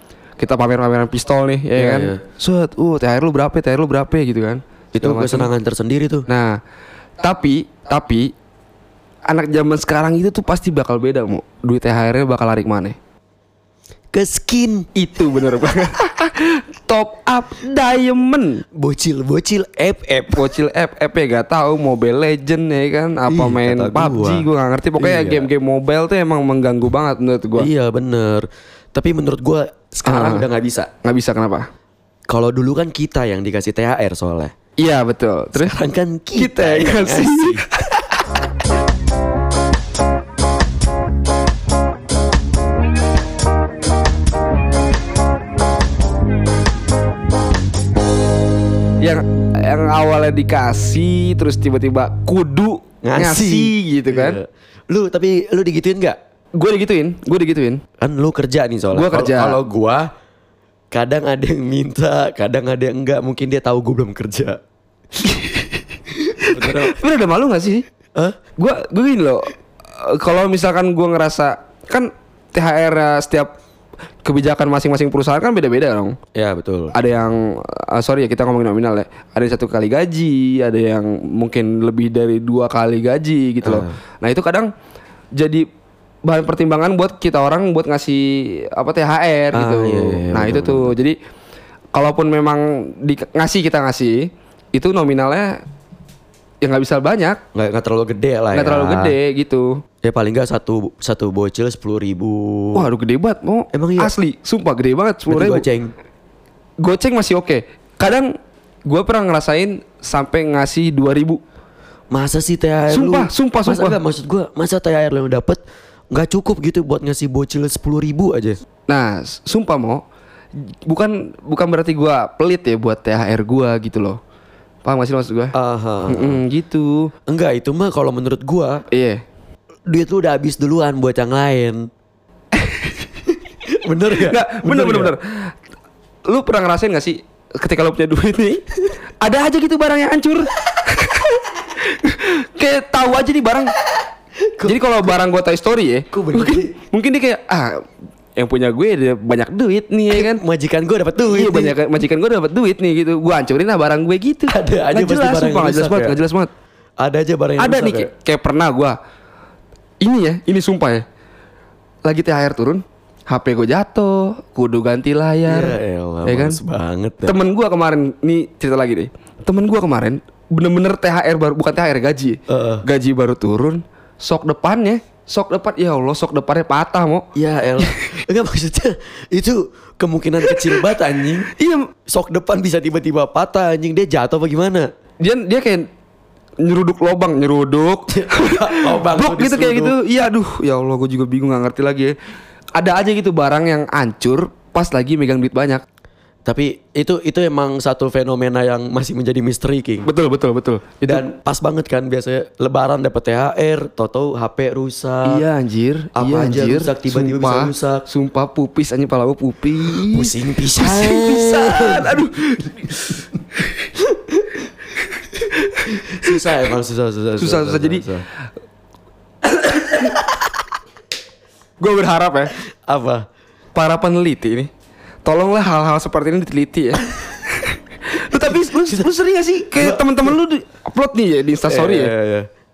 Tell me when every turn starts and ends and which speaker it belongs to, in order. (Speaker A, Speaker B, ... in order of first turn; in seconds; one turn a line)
Speaker A: 0.4-5.5
Speaker B: 1.8-2.2
Speaker B: 5.0-6.3
Speaker A: 6.3-6.6
Speaker A: 7.2-8.3
Speaker A: 9.3-12.9
Speaker B: 14.1-14.9
Speaker A: 14.9-18.6
Speaker B: 18.8-20.6
Speaker A: 20.3-27.7
Speaker B: 23.3-24.4
Speaker B: 25.0-25.5
Speaker B: 27.6-30.9
Speaker A: 30.1-30.4
Speaker A: 31.0-31.7
Speaker B: 32.3-34.5
Speaker A: 34.8-35.8
Speaker B: 35.5-37.6
Speaker A: 36.4-38.2
Speaker A: 49.0-54.4
Speaker B: 53.0-56.1
Speaker A: 56.5-57.8
Speaker B: 58.0-60.1
Speaker A: 58.9-59.6
Speaker B: 60.9-64.6
Speaker A: 65.2-65.8
Speaker B: 66.4-66.9
Speaker A: 66.5-67.8
Speaker A: 68.6-73.5
Speaker A: 74.2-76.1
Speaker B: 76.3-77.0
Speaker A: 76.9-84.7
Speaker B: 83.6-83.9
Speaker A: 85.3-85.6
Speaker A: 86.2-91.2
Speaker B: 89.5-90.9
Speaker A: 91.9-94.2
Speaker A: 94.7-95.5
Speaker A: 96.6-97.4
Speaker B: 97.5-99.1
Speaker A: 98.5-99.7
Speaker B: 100.0-102.9
Speaker A: 102.7-105.6
Speaker B: 103.7-104.1
Speaker B: 105.3-105.9
Speaker A: 106.8-108.3
Speaker A: 108.8-111.4
Speaker B: 112.1-115.6
Speaker A: 112.9-114.0
Speaker B: 116.1-118.6
Speaker A: 118.9-120.0
Speaker A: 120.8-124.2
Speaker A: 124.8-125.5
Speaker B: 125.5-126.4
Speaker A: 126.1-127.1
Speaker B: 127.3-128.8
Speaker A: 128.9-129.2
Speaker B: 129.9-131.9
Speaker A: 132.5-133.0
Speaker B: 133.8-135.1
Speaker A: 134.2-135.5
Speaker A: 136.3-138.6
Speaker A: 139.2-143.7
Speaker B: 144.4-144.8
Speaker A: 144.7-147.8
Speaker B: 146.1-146.7
Speaker A: 148.3-150.4
Speaker B: 150.1-151.8
Speaker A: 151.3-156.5
Speaker B: 154.5-156.2
Speaker B: 157.0-158.1
Speaker A: 157.6-158.9
Speaker A: 160.0-161.0
Speaker A: 162.0-165.7
Speaker B: 165.5-167.4
Speaker A: 166.2-166.6
Speaker A: 167.2-177.2
Speaker B: 172.5-172.8
Speaker B: 177.3-181.5
Speaker A: 180.4-180.8
Speaker A: 181.6-181.8
Speaker B: 182.1-184.9
Speaker A: 185.2-185.8
Speaker A: 186.6-192.1
Speaker B: 188.1-189.9
Speaker A: 192.8-195.8
Speaker B: 196.4-200.1
Speaker A: 200.0-201.2
Speaker B: 201.1-205.4
Speaker A: 205.2-213.7
Speaker B: 206.2-208.0
Speaker B: 210.0-212.2
Speaker B: 214.0-214.6
Speaker A: 215.7-216.3
Speaker B: 215.9-218.2
Speaker A: 217.4-218.1
Speaker A: 221.8-222.5
Speaker B: 222.8-223.2
Speaker A: 223.7-224.7
Speaker A: 225.2-232.1
Speaker B: 228.5-229.0
Speaker B: 229.8-230.3
Speaker B: 231.6-232.5